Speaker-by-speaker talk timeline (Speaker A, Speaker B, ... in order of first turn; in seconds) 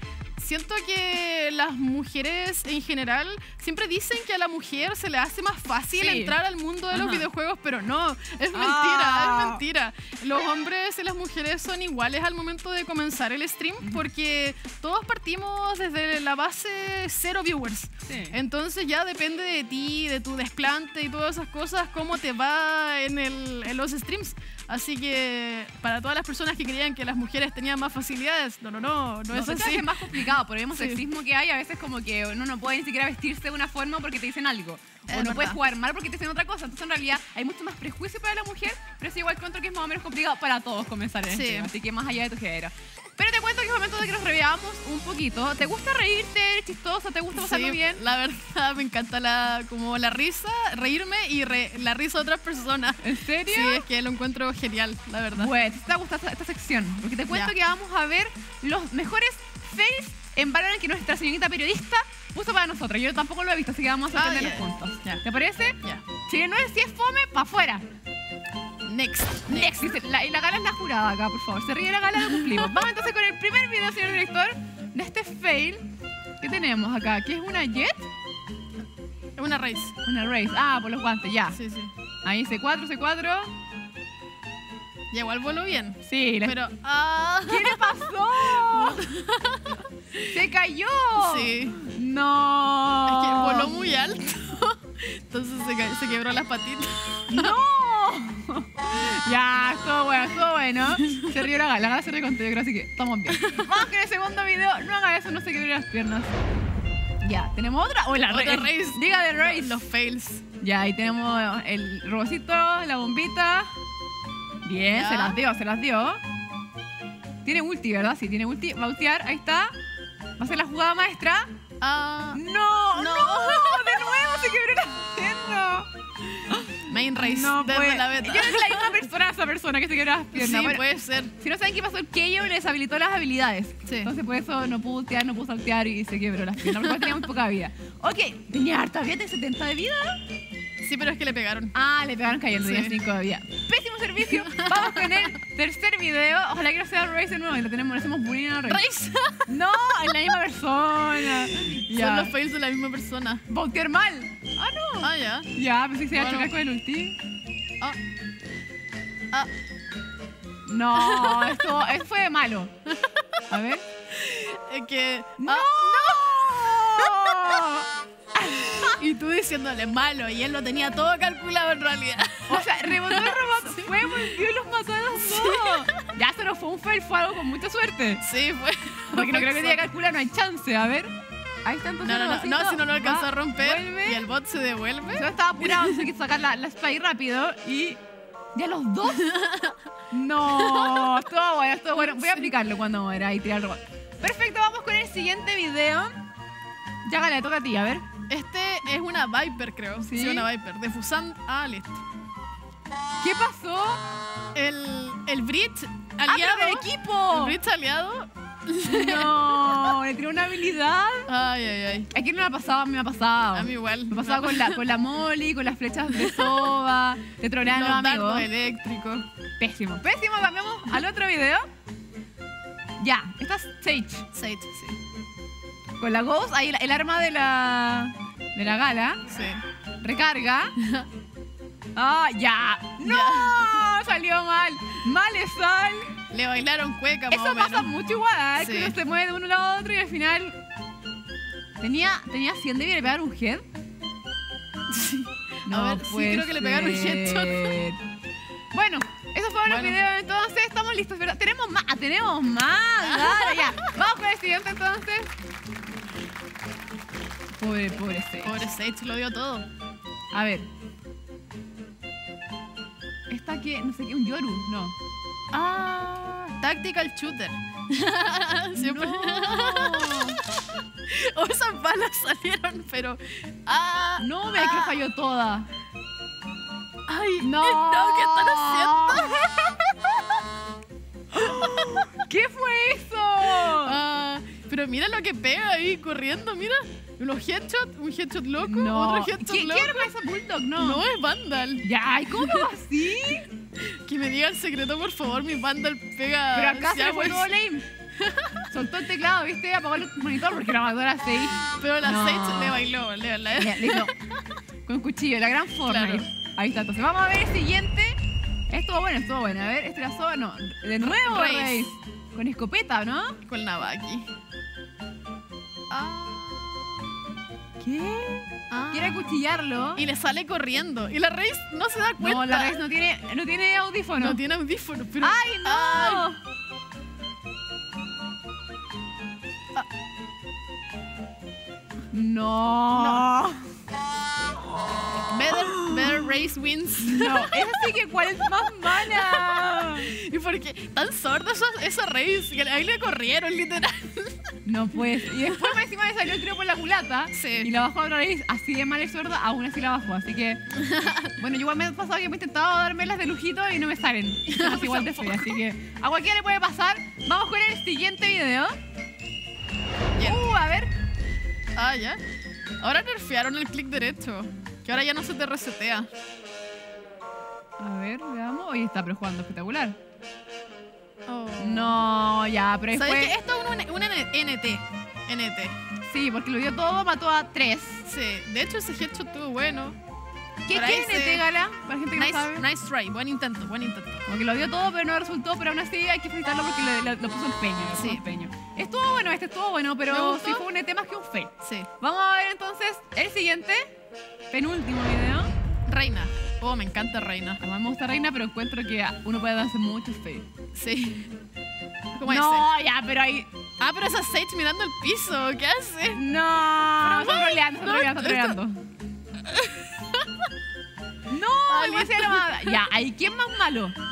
Speaker A: 0.4-31.0, 35.1-35.6, 41.3-41.7, 47.3-55.5, 57.3-57.5, 64.1-65.2, 68.8-69.9, 79.4-79.9, 81.5-81.9, 85.1-90.4, 91.2-91.8, 93.0-97.6, 100.8-101.5, 103.3-103.9, 108.3-110.4, 114.9-115.4, 121.8-122.4, 123.0-124.1, 126.9-129.0, 130.3-131.3, 133.8-134.1, 136.8-137.2, 140.8-141.7, 142.6-142.9, 144.2-145.3, 148.6-149.5, 151.2-153.4, 155.0-155.5, 156.1-156.5, 160.9-161.6, 162.9-163.4, 164.1-167.6, 168.5-174.4, 175.1-176.0, 178.2-179.9, 182.0-186.1, 189.0-189.8, 190.4-191.2, 191.9-192.5, 198.3-202.0, 204.5-210.0, 211.3-212.1, 213.5-214.8, 216.1-216.7, 217.6-219.3, 224.3-225.0, 229.3-229.6, 230.8-231.1, 233.0-233.8, 236.3-237.9, 238.6-238.9, 244.9-247.8, 249.7-250.0, 253.0-253.9, 258.4-259.6, 265.5-275.0, 277.1-280.4, 281.3-282.1, 283.5-290.1, 290.8-292.7, 293.8-297.5, 298.2-298.7, 301.5-304.3, 305.9-306.3, 311.0-311.9, 313.5-314.3, 315.9-317.0, 318.7-319.4, 320.0-322.8, 324.2-326.3, 332.9-333.3, 335.3-337.8, 338.6-344.5, 345.1-345.8, 347.3-347.7, 350.7-351.3, 354.5-355.6, 360.2-360.5, 361.8-362.2, 362.8-366.1, 371.3-372.0, 372.9-375.8, 378.0-380.0, 380.7-381.4, 382.1-384.2, 387.9-388.2, 390.1-390.6, 391.6-391.9, 395.9-397.6, 400.7-401.3, 402.1-402.7, 403.8-406.2, 407.0-408.6, 409.4-410.3, 411.6-412.8
Speaker B: 6.0-6.4, 6.9-7.3, 8.5-9.6, 18.1-18.4, 29.3-48.0, 53.0-53.9, 55.3-67.8, 69.5-75.9, 76.4-78.1, 80.0-81.6, 82.2-83.5, 86.0-86.6, 87.5-89.0, 90.3-93.7, 97.3-106.4, 107.2-109.8, 110.6-113.7, 114.6-116.2, 117.4-119.7, 120.4-121.5, 122.3-125.9, 126.5-130.8, 131.4-140.2, 141.7-148.8, 149.5-152.3, 153.5-157.2, 160.7-162.7, 163.5-163.8, 165.4-168.9, 172.5-178.2, 179.1-181.1, 181.6-184.2, 185.1-188.0, 188.5-189.2, 190.1-196.2, 197.1-198.0, 200.0-200.5, 203.2-204.0, 206.2-207.6, 208.8-211.3, 212.1-218.5, 219.6-221.6, 223.0-224.2, 226.0-229.2, 230.0-230.7, 231.9-236.1, 237.3-240.6, 241.8-243.7, 245.7-248.0, 248.7-255.3, 257.6-258.6, 260.3-260.7, 263.3-264.9, 268.8-270.4, 274.2-275.7, 277.4-279.6, 281.3-284.0, 288.6-291.0, 291.8-293.5, 296.5-297.9, 298.7-302.8, 303.5-304.1, 304.8-308.2, 308.7-313.4, 317.8-320.0, 322.2-324.4, 325.2-326.4, 332.1-333.7, 335.5-336.2, 337.0-340.1, 344.6-350.6, 351.4-358.8, 360.2-360.9, 367.8-370.0, 371.6-373.3, 376.0-378.0, 380.6-382.6, 384.3-393.9, 394.5-395.5, 397.6-400.4, 402.2-403.5, 406.1-408.8, 411.3-413.9